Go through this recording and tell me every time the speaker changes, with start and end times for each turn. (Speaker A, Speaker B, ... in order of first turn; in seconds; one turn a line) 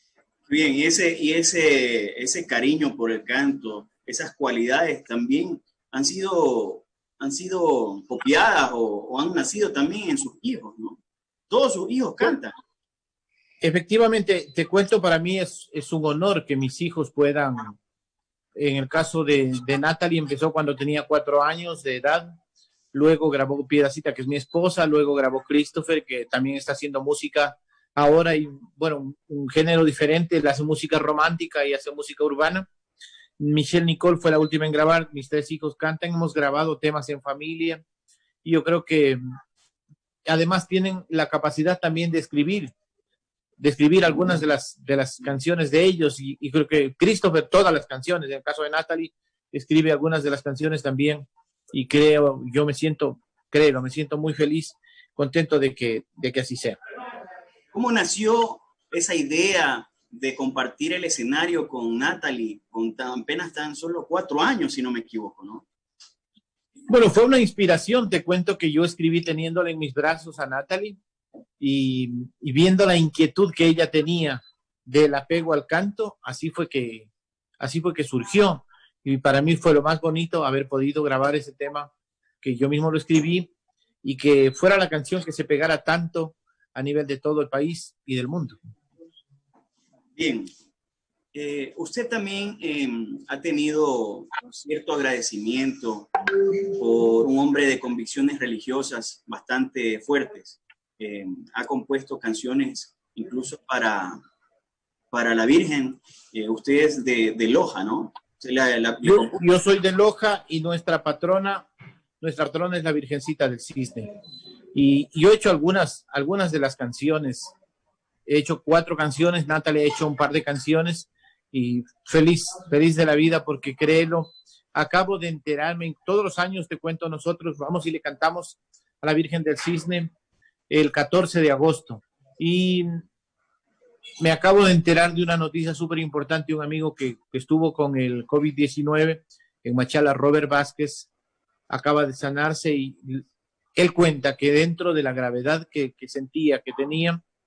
Speaker A: 0.5-12.5
Speaker B: 13.6-17.8
Speaker B: 18.5-22.4
Speaker B: 22.9-32.7
Speaker B: 33.4-37.8
Speaker B: 38.4-39.2
Speaker B: 40.2-42.7
Speaker B: 43.6-56.8
Speaker A: 57.7-65.6
Speaker B: 66.9-71.0
Speaker B: 71.6-77.1
Speaker B: 77.6-81.9
Speaker B: 82.4-83.5
Speaker B: 84.0-88.6
Speaker A: 90.2-90.5
Speaker A: 91.3-96.1
Speaker A: 96.7-104.2
Speaker A: 105.1-109.4
Speaker B: 109.0-111.7
Speaker B: 112.2-114.1
Speaker B: 114.7-117.5
Speaker B: 118.2-130.1
Speaker B: 130.7-133.0
Speaker B: 134.2-141.1
Speaker B: 141.7-143.2
Speaker B: 143.8-147.2